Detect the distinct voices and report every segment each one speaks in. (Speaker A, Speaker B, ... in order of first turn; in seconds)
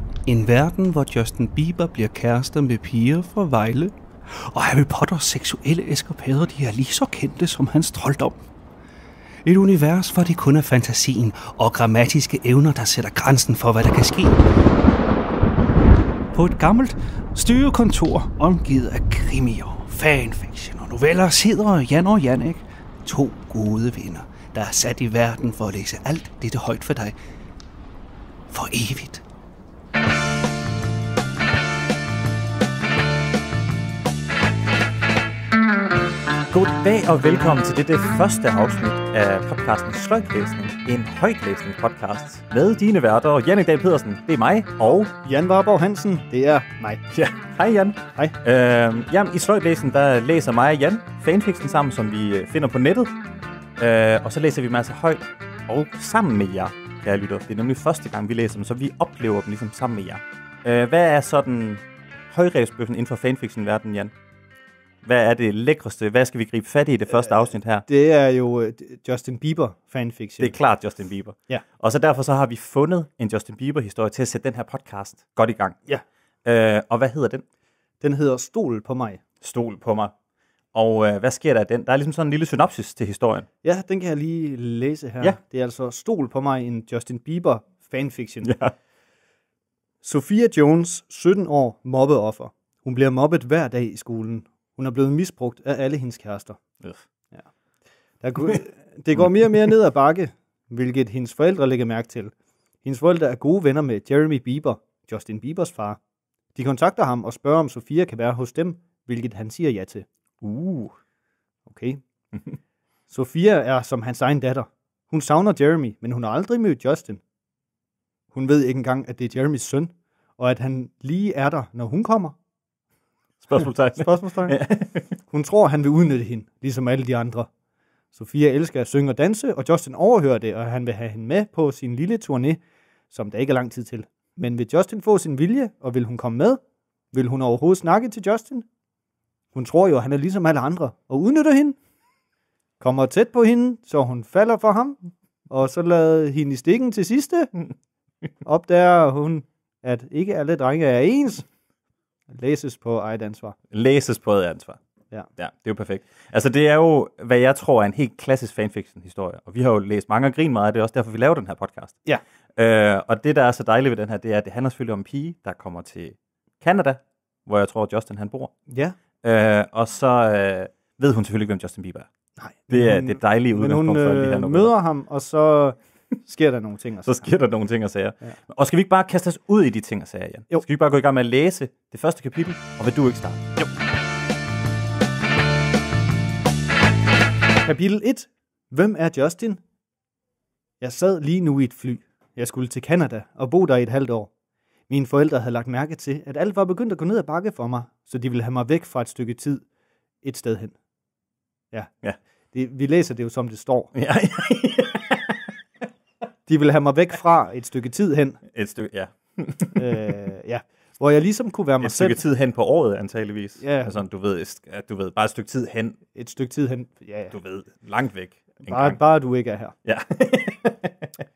Speaker A: 0.3-8.4, 9.4-14.4, 16.3-27.2, 28.5-29.2
Speaker B: 36.5-45.1, 47.1-53.2, 53.8-64.1, 65.0-67.8, 70.4-75.8, 76.5-77.4, 79.4-80.1, 80.7-83.5, 88.4-88.7, 110.4-111.0, 123.4-125.0, 153.7-154.8, 155.4-162.0, 162.6-168.5, 169.2-172.1, 172.7-174.7, 177.0-183.4, 203.9-205.4, 208.5-209.9, 211.8-216.0, 217.3-219.0, 219.8-221.1
Speaker C: 45.2-47.0, 67.2-70.5, 78.0-79.2, 83.6-88.6, 90.0-96.6, 98.2-102.3, 102.8-106.0, 106.5-110.1, 111.7-112.0, 113.1-117.2, 118.3-122.4, 124.0-124.7, 125.2-127.5, 128.1-132.6, 133.1-136.6, 137.1-138.7, 139.5-141.8, 142.8-145.0, 145.5-147.5, 148.4-151.5, 152.3-153.6, 168.7-169.0, 172.4-177.3, 187.6-189.6, 190.8-194.3, 194.9-199.6, 200.2-200.8, 202.5-203.9, 206.5-208.4, 209.8-212.2, 213.6-213.9, 216.2-217.3, 218.7-219.7